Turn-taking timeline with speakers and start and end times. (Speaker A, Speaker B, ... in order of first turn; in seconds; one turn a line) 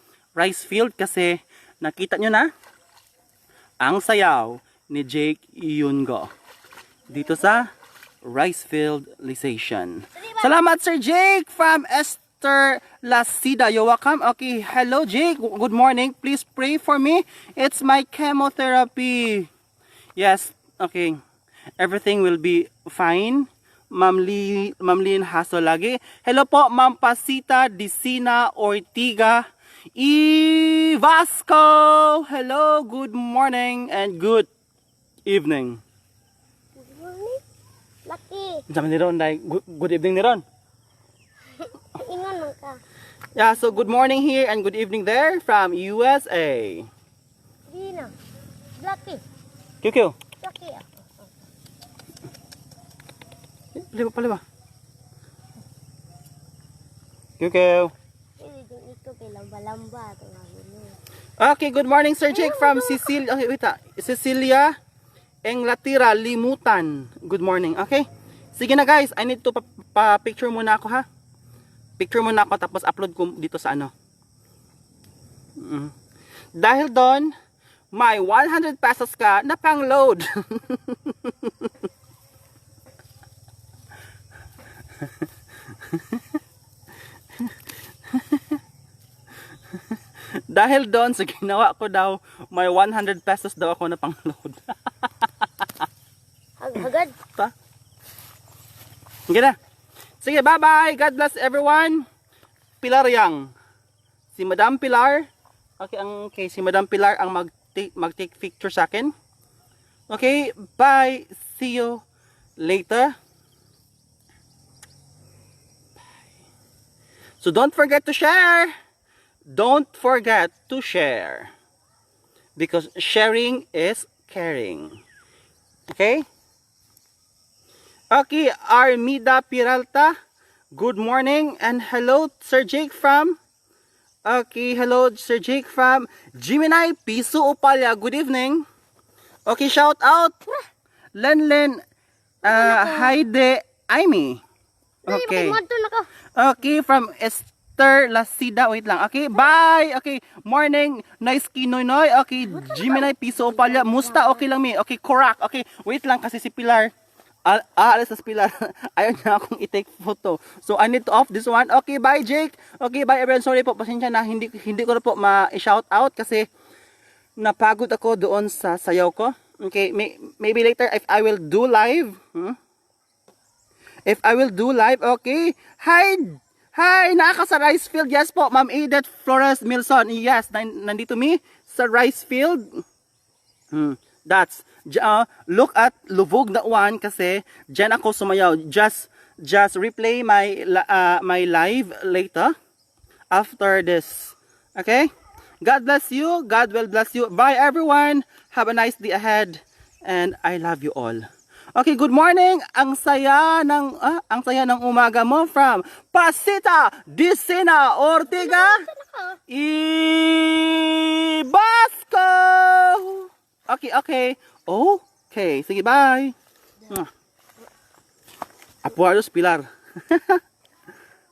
Speaker A: 0.4-2.5
Speaker A: 3.8-6.3
Speaker A: 7.1-7.7
Speaker B: 7.1-7.7
Speaker A: 8.2-19.5
Speaker B: 10.2-10.5
Speaker A: 20.2-21.2
Speaker A: 21.8-29.4
Speaker A: 30.0-34.5
Speaker A: 35.3-35.8
Speaker B: 36.8-37.4
Speaker B: 38.1-38.6
Speaker A: 38.7-40.4
Speaker B: 41.5-42.8
Speaker A: 43.4-46.9
Speaker B: 47.7-48.1
Speaker B: 48.8-49.2
Speaker A: 49.8-50.2
Speaker B: 50.4-51.3
Speaker A: 53.8-54.4
Speaker A: 57.4-57.9
Speaker B: 58.4-61.0
Speaker A: 61.4-64.7
Speaker B: 62.3-63.1
Speaker A: 65.5-71.0
Speaker A: 72.0-73.9
Speaker A: 75.6-75.9
Speaker A: 76.6-77.3
Speaker A: 77.9-81.7
Speaker A: 85.9-86.2
Speaker A: 88.1-88.4
Speaker A: 90.3-94.7
Speaker A: 95.3-95.7
Speaker B: 96.6-97.2
Speaker A: 99.3-99.6
Speaker A: 100.2-102.1
Speaker A: 102.8-103.5
Speaker A: 104.3-105.3
Speaker A: 105.8-109.1
Speaker A: 110.1-112.0
Speaker A: 112.6-113.2
Speaker A: 117.4-118.7
Speaker A: 119.5-121.5
Speaker A: 122.6-125.0
Speaker A: 125.9-126.3
Speaker A: 128.1-130.2
Speaker A: 130.7-133.4
Speaker A: 134.3-138.7
Speaker A: 139.5-140.4
Speaker A: 141.2-141.8
Speaker B: 142.4-143.2
Speaker A: 142.4-144.4
Speaker A: 145.1-145.6
Speaker B: 145.1-146.1
Speaker A: 146.4-156.9
Speaker B: 152.4-154.4
Speaker A: 157.5-166.5
Speaker A: 167.4-172.6
Speaker A: 174.1-182.8
Speaker A: 183.7-192.5
Speaker A: 193.3-195.1
Speaker A: 195.6-201.2
Speaker A: 201.8-208.8
Speaker B: 208.3-209.4
Speaker A: 209.5-216.3
Speaker A: 218.8-220.4